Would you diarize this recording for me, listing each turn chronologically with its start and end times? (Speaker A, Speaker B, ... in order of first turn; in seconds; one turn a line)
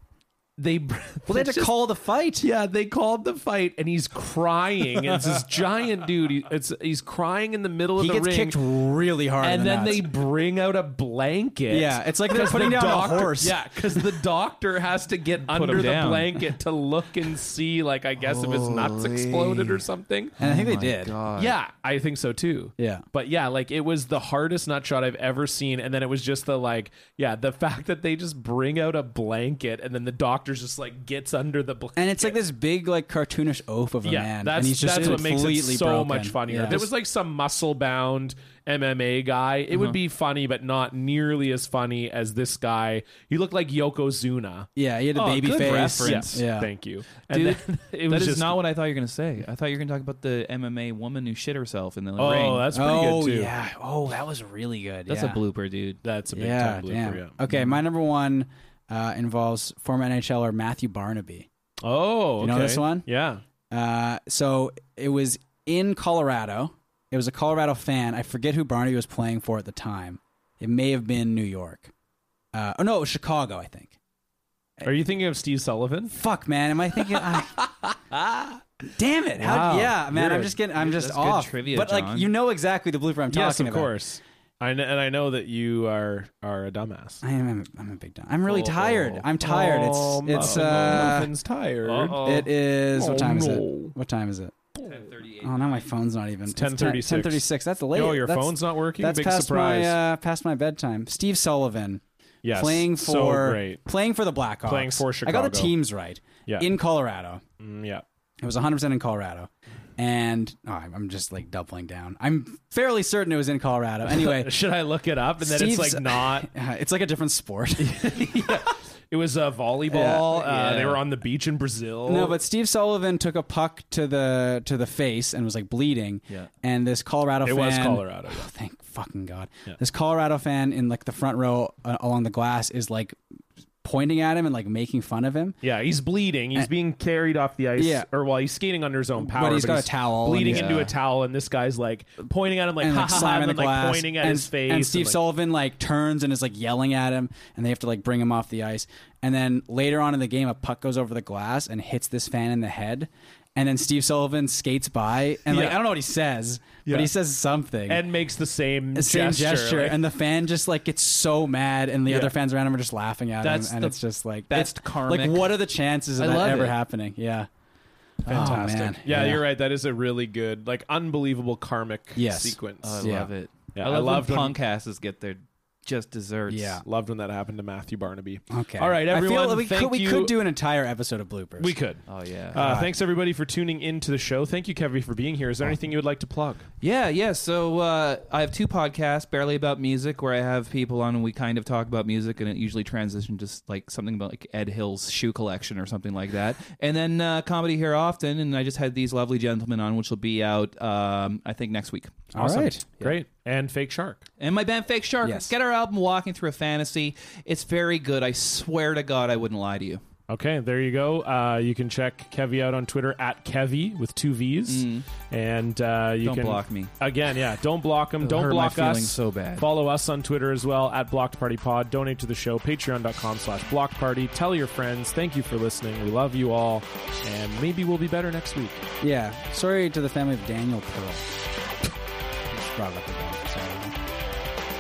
Speaker A: 0.6-1.7
Speaker B: 1.3-2.5
Speaker A: 2.4-8.6
Speaker B: 8.0-10.1
Speaker A: 9.4-20.4
Speaker B: 11.7-13.6
Speaker C: 15.4-16.3
Speaker C: 18.2-19.8
Speaker B: 20.4-21.1
Speaker C: 20.4-21.6
Speaker A: 21.4-32.4
Speaker B: 22.8-23.0
Speaker B: 32.0-36.9
Speaker A: 34.0-44.7
Speaker B: 44.8-46.7
Speaker C: 45.1-46.4
Speaker A: 46.0-48.6
Speaker C: 47.3-52.6
Speaker A: 52.2-53.5
Speaker B: 52.7-55.4
Speaker C: 55.1-56.0
Speaker A: 56.0-57.4
Speaker B: 56.3-61.5
Speaker A: 61.8-63.4
Speaker B: 62.4-63.1
Speaker B: 63.7-71.9
Speaker B: 72.5-73.9
Speaker A: 74.8-76.2
Speaker B: 76.1-77.6
Speaker A: 77.1-78.6
Speaker B: 79.0-83.9
Speaker A: 79.3-80.6
Speaker C: 80.7-82.3
Speaker A: 83.3-87.2
Speaker B: 87.2-91.3
Speaker A: 88.5-92.2
Speaker C: 91.8-92.5
Speaker B: 92.2-94.5
Speaker A: 92.9-93.9
Speaker C: 94.8-95.8
Speaker B: 95.4-102.0
Speaker A: 96.5-100.0
Speaker A: 102.4-103.8
Speaker B: 102.5-107.4
Speaker A: 104.7-105.7
Speaker A: 107.6-108.0
Speaker B: 108.4-114.5
Speaker A: 114.1-116.5
Speaker B: 115.4-118.3
Speaker A: 117.8-122.4
Speaker B: 119.9-120.3
Speaker C: 120.0-121.0
Speaker B: 122.0-133.2
Speaker A: 127.4-128.5
Speaker B: 133.8-135.6
Speaker A: 135.6-145.2
Speaker B: 137.8-138.1
Speaker B: 139.2-140.9
Speaker C: 140.4-140.9
Speaker B: 142.8-158.0
Speaker A: 155.5-155.8
Speaker A: 156.8-157.1
Speaker A: 157.9-160.0
Speaker B: 158.9-167.5
Speaker A: 162.1-162.3
Speaker C: 163.4-164.0
Speaker C: 164.5-165.5
Speaker C: 166.2-166.8
Speaker C: 168.2-168.8
Speaker B: 168.3-169.4
Speaker A: 168.3-173.1
Speaker B: 172.2-173.3
Speaker C: 172.8-176.8
Speaker A: 173.7-174.6
Speaker B: 176.5-176.8
Speaker A: 176.8-180.3
Speaker B: 178.5-181.7
Speaker A: 181.6-186.6
Speaker C: 182.1-182.6
Speaker B: 182.6-182.9
Speaker C: 186.8-202.3
Speaker B: 202.3-202.8
Speaker A: 202.4-204.2
Speaker C: 204.4-210.0
Speaker B: 205.2-205.5
Speaker A: 210.3-228.8
Speaker C: 214.7-215.1
Speaker C: 216.2-216.9
Speaker C: 218.2-219.7
Speaker B: 229.0-231.3
Speaker B: 232.5-233.9